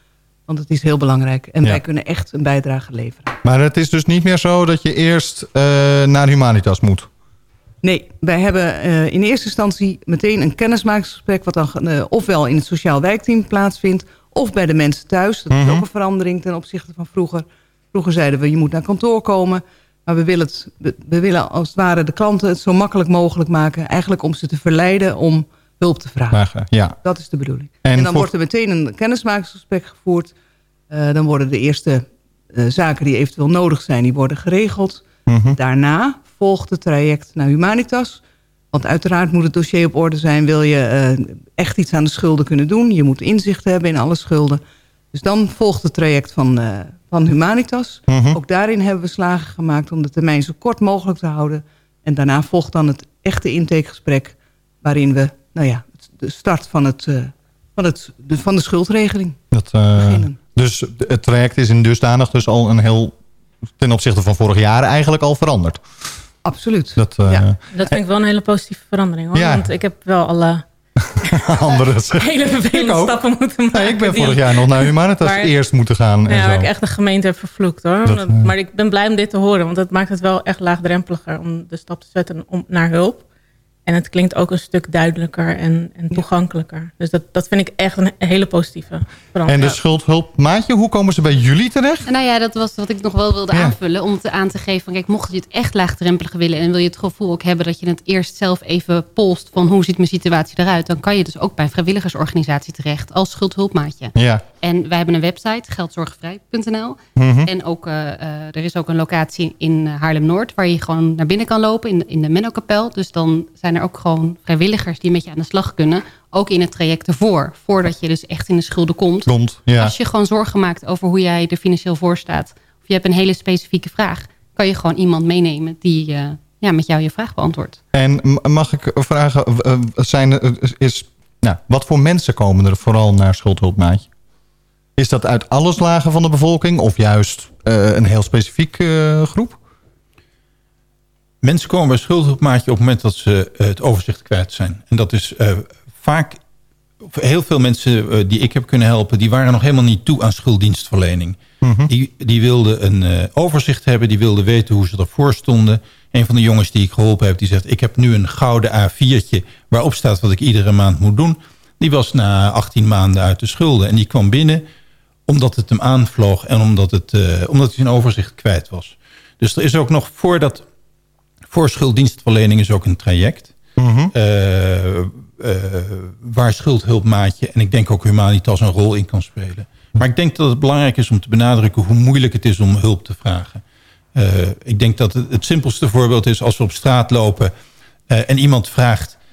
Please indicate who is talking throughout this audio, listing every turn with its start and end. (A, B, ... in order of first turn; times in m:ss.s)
0:00.5-0:03.3 A
0:03.4-0:07.1 B
0:07.8-0:26.4 A
0:15.5-0:15.8 B
0:26.3-0:27.0 B
0:27.0-0:30.3 A
0:27.8-0:28.3 B
0:30.9-0:38.2 A
0:35.3-0:35.6 B
0:38.7-0:44.6 A
0:45.1-0:59.4 A
0:48.1-0:48.4 B
0:59.5-1:03.1 B
0:59.9-1:00.4 A
1:03.8-1:05.8 B
1:06.4-1:07.4 A
1:07.0-1:08.0 B
1:07.7-1:10.6 C
1:09.3-1:09.7 B
1:11.1-1:13.2 B
1:12.2-1:15.5 C
1:13.7-1:16.7 B
1:16.3-1:23.2 C
1:18.0-1:18.5 B
1:23.8-1:29.7 C
1:29.4-1:32.1 B
1:32.0-2:07.8 D
1:44.1-1:44.4 B
1:47.2-1:47.5 B
1:59.2-1:59.9 B
2:07.9-2:14.1 B
2:15.0-2:19.6 B
2:21.4-2:26.4 E
2:27.1-2:44.6 E
2:31.6-2:31.9 B
2:45.3-2:50.6 E
2:51.5-2:53.5 E
2:53.8-2:54.1 B
2:54.1-3:03.6 E
3:04.1-3:07.5 E
3:08.1-3:09.2 E